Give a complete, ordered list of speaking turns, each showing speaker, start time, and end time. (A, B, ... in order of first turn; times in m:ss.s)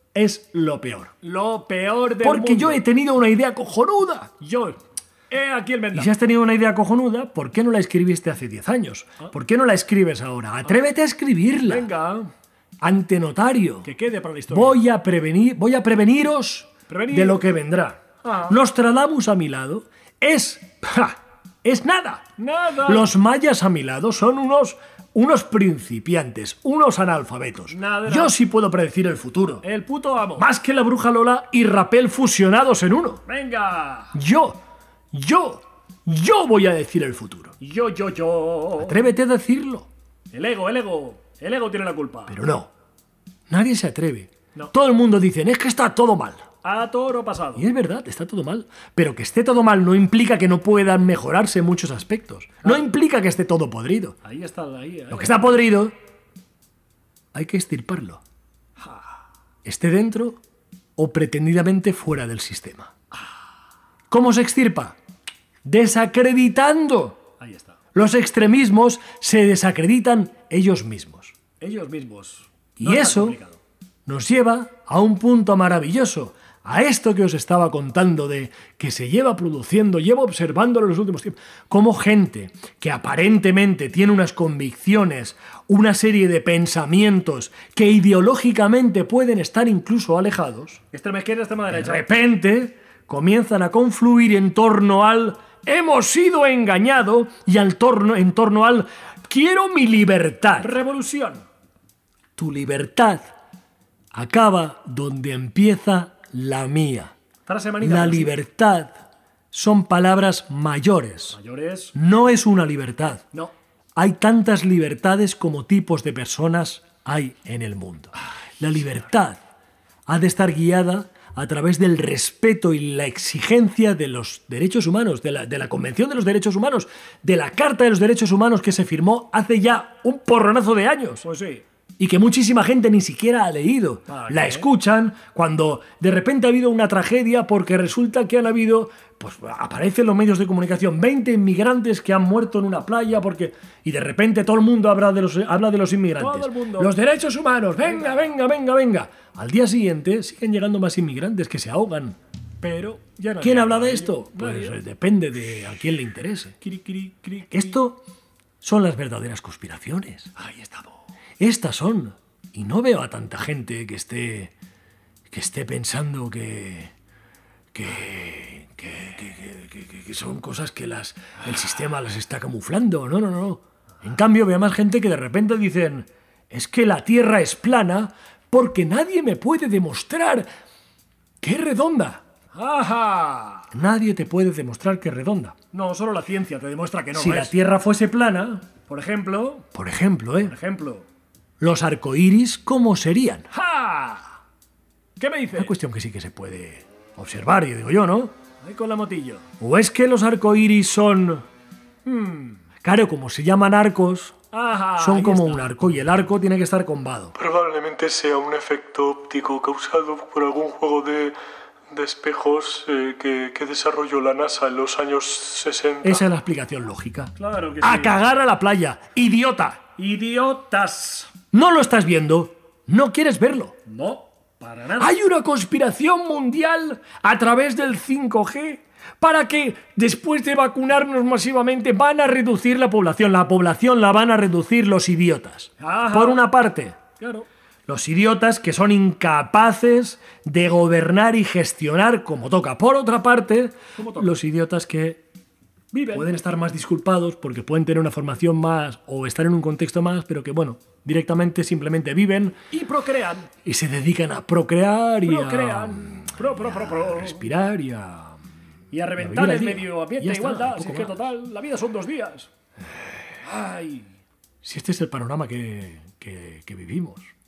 0:00.1-0:01.2 A
0:01.2-0:02.8 B
0:02.2-0:04.3 A
0:04.4-0:06.1 B
0:05.9-0:11.9 A
0:11.7-0:12.3 B
0:12.8-0:13.9 A
0:13.8-0:14.8 B
0:14.5-0:22.3 A
0:16.9-0:17.5 B
0:18.2-0:18.6 B
0:22.4-0:23.1 B
0:22.8-0:29.6 A
0:27.7-0:28.4 B
0:29.6-0:30.4 B
0:30.4-0:33.2 A
0:33.2-0:34.1 B
0:34.1-0:34.6 A
0:35.1-0:37.6 A
0:37.6-0:39.1 B
0:38.8-0:39.9 A
0:40.3-0:42.4 B
0:42.3-0:42.7 A
0:43.5-0:46.5 A
0:46.6-0:47.6 B
0:47.6-0:54.2 A
0:54.2-0:55.4 B
0:55.1-0:55.9 A
0:57.3-0:58.2 A
0:59.6-1:00.4 A
1:01.0-1:02.9 A
1:04.1-1:05.0 A
1:05.6-1:07.2 A
1:07.4-1:07.8 B
1:07.9-1:11.3 A
1:11.6-1:13.6 B
1:12.8-1:13.4 A
1:14.0-1:30.8 A
1:30.9-1:32.1 B
1:31.7-1:40.8 A
1:40.6-1:41.4 B
1:42.4-1:43.3 A
1:44.1-1:47.1 A
1:47.4-1:48.4 B
1:47.8-1:49.0 A
1:49.5-1:51.4 A
1:51.3-1:51.9 B
1:51.9-1:53.3 A
1:54.0-1:59.4 A
2:00.1-2:11.2 A
2:11.2-2:11.6 B
2:12.0-2:32.2 A
2:14.1-2:14.7 B
2:26.2-2:26.9 B
2:27.9-2:28.2 B
2:32.6-2:34.8 B
2:33.4-2:36.6 A
2:36.6-2:37.8 B
2:37.5-2:38.0 A
2:38.6-2:40.3 A
2:40.4-2:41.0 B
2:41.4-2:44.5 A
2:45.3-2:46.9 A
2:47.7-3:00.5 A
3:01.4-3:02.2 A
3:02.5-3:03.7 B
3:03.7-3:05.6 A
3:05.7-3:07.6 B
3:07.1-3:08.7 A
3:08.8-3:09.7 B
3:09.7-3:10.5 A
3:10.4-3:11.0 B
3:11.6-3:13.5 A
3:13.5-3:14.3 B
3:15.2-3:15.7 B
3:15.6-3:18.3 A
3:18.6-3:19.4 B
3:19.6-3:21.4 A
3:22.0-3:22.6 B
3:22.8-3:24.4 A
3:24.5-3:25.7 B
3:25.0-3:27.3 A
3:27.4-3:31.4 C
3:31.9-3:36.2 C
3:36.0-3:39.8 A
3:37.4-3:38.2 B
3:40.0-3:41.3 B
3:41.5-3:43.8 A
3:43.8-3:45.2 B
3:45.0-3:57.0 A
3:55.8-3:56.4 B
3:57.2-3:57.5 B
3:57.9-4:05.2 A
4:03.9-4:04.4 B
4:05.9-4:06.3 B
4:06.1-4:12.6 A
4:12.7-4:13.5 B
4:13.6-4:18.4 A
4:15.2-4:17.5 B
4:18.9-4:22.5 B
4:19.2-4:21.2 A
4:23.4-4:24.1 B
4:24.6-4:27.3 A